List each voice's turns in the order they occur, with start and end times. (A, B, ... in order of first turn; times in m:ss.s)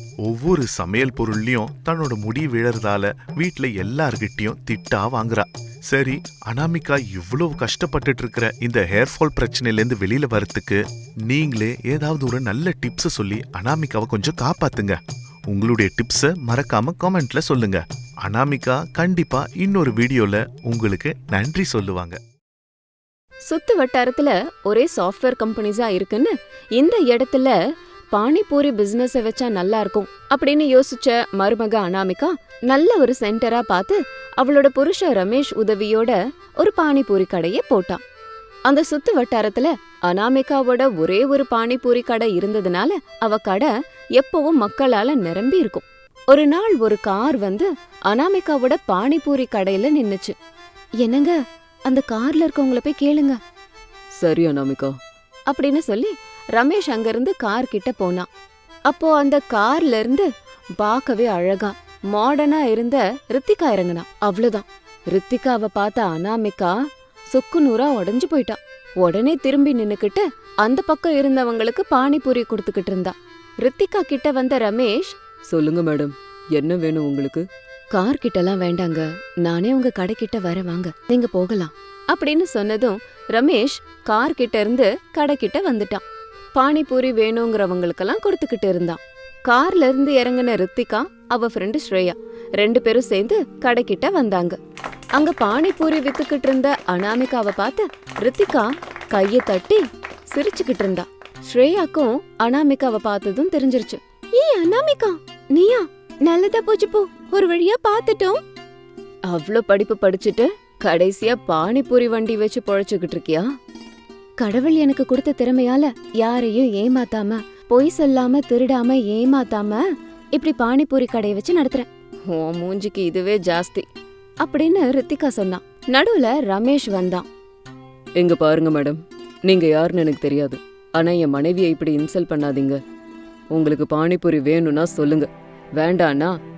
0:00.2-0:15.0 A
0:15.5-0:22.2 A
0:23.5-0:27.5 B
0:28.1-0:38.0 B
0:38.7-0:50.3 B
0:51.0-0:51.4 B
0:51.9-0:53.4 B
0:54.2-0:54.9 C
0:55.5-0:58.2 B
0:58.9-1:00.2 B
1:00.8-1:06.7 B
1:07.3-1:15.1 B
1:15.5-1:17.4 C
1:17.9-1:26.0 B
1:26.6-1:34.6 B
1:35.2-1:39.8 B
1:40.3-1:48.4 B
1:49.3-1:53.5 B
1:54.4-1:59.8 B
2:00.4-2:03.8 B
2:04.4-2:07.2 B
2:08.2-2:11.9 C
2:11.0-2:12.6 B
2:13.5-2:15.3 C
2:13.7-2:14.9 B
2:15.8-2:16.3 B